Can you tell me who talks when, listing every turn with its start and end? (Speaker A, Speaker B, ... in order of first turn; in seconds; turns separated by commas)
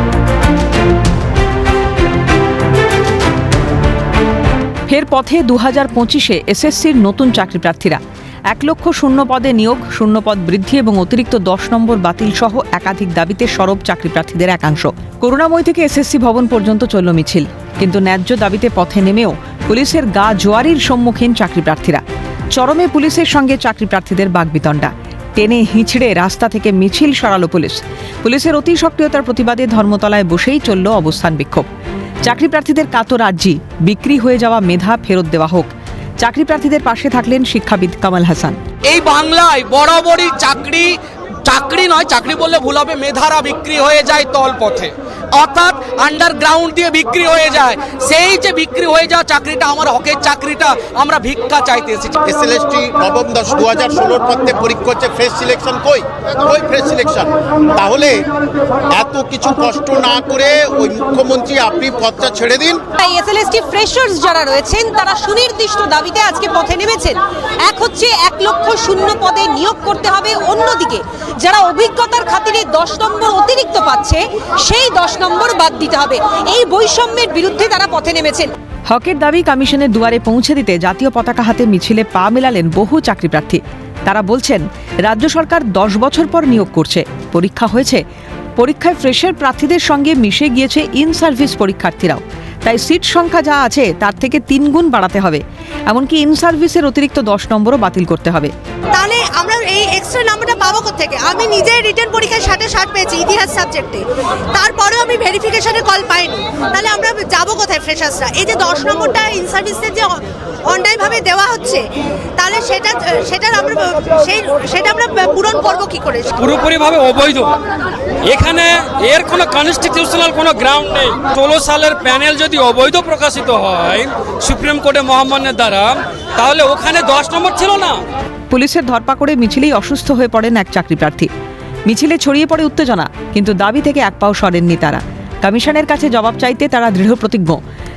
Speaker A: 4.9-8.0, Speaker A: 8.5-22.0, Speaker A: 22.5-31.7, Speaker A: 32.2-38.6, Speaker B: 38.9-52.2, Speaker C: 52.2-58.3, Speaker C: 58.9-62.8, Speaker D: 63.0-78.5, Speaker A: 78.9-88.0, Speaker A: 88.6-98.5, Speaker E: 98.9-104.0, Speaker E: 104.5-110.2, Speaker E: 110.7-111.8, Speaker E: 112.4-116.3, Speaker F: 116.4-117.5, Speaker F: 118.3-128.0, Speaker A: 128.5-131.3, Speaker A: 131.9-137.6